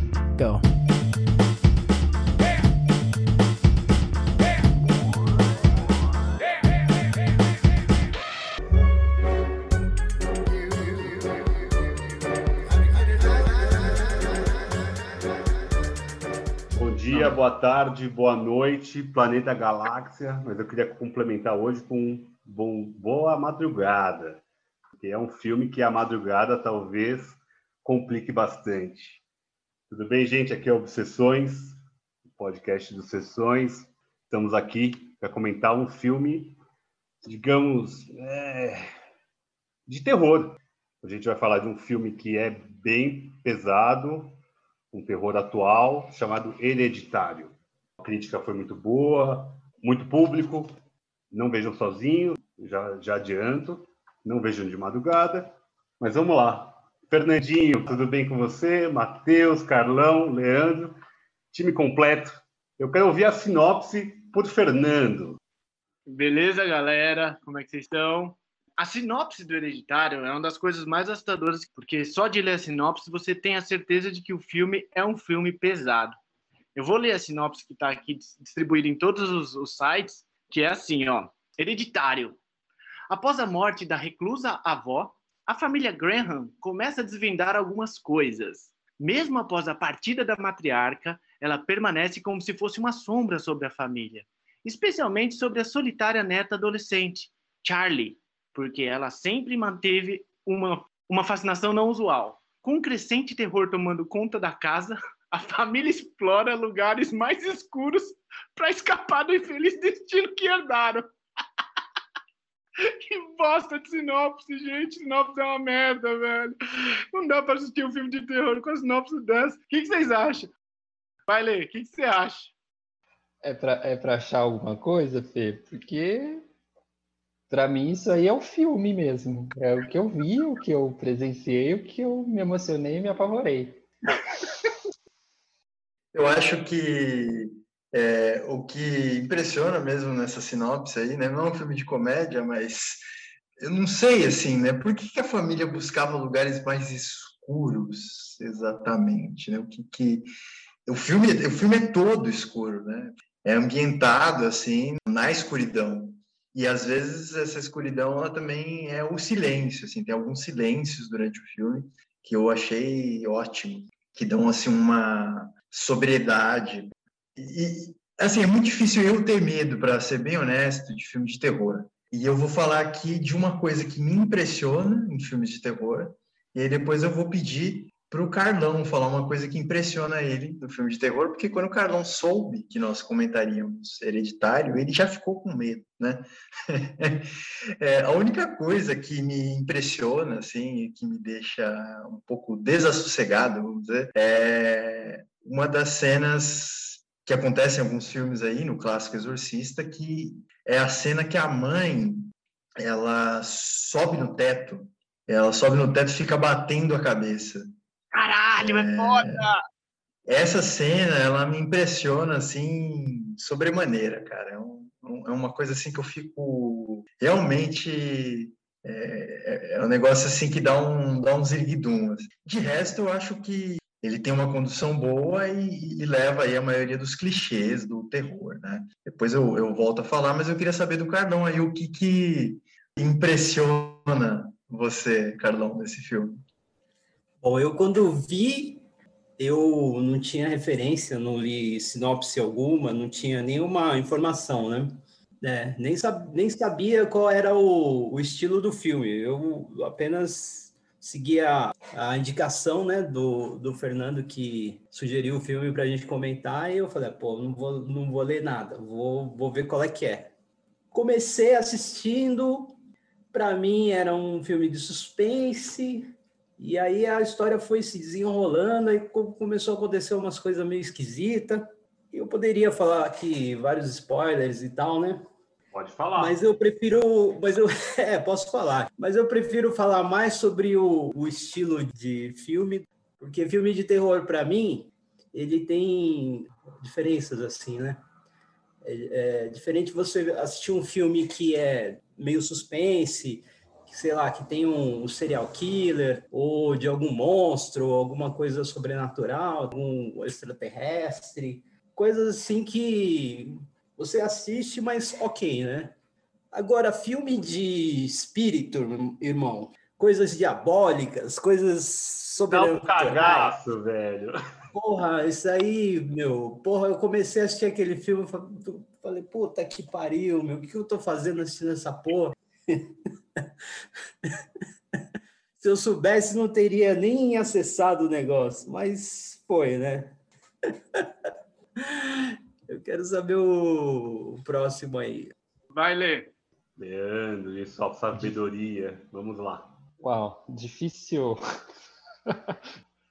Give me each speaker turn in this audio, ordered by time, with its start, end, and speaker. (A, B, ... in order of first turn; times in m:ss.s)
0:16.8-0:24.4 A
0:24.9-0:29.2 A
0:29.9-0:36.6 A
0:37.2-0:38.8 A
0:39.9-0:44.4 A
0:44.9-0:50.7 A
0:51.3-1:00.9 A
1:01.5-1:05.4 A
1:06.1-1:16.1 B
1:16.7-1:22.4 B
1:23.1-1:51.0 B
1:52.8-1:56.6 B
1:57.1-2:00.5 B
2:01.3-2:02.5 B
2:03.4-2:06.4 C
2:07.5-2:13.8 C
2:16.1-2:23.0 D
2:23.6-2:30.3 D
2:30.8-3:27.6 D
3:28.1-3:29.6 B
3:28.6-3:29.4 D
3:30.2-3:56.4 D
3:57.4-3:58.8 E
3:59.4-4:20.3 E
4:20.9-4:22.8 E
4:23.3-4:35.2 E
4:35.7-4:36.4 A
4:36.2-4:48.0 E
4:48.8-5:06.0 E
5:06.5-5:13.6 E
5:12.5-5:14.3 A
5:14.7-5:23.4 E
5:25.6-5:30.2 E
5:31.8-5:35.3 E
5:35.7-5:36.3 B
5:36.8-5:39.8 A
5:40.0-5:41.4 C
5:42.3-5:42.6 C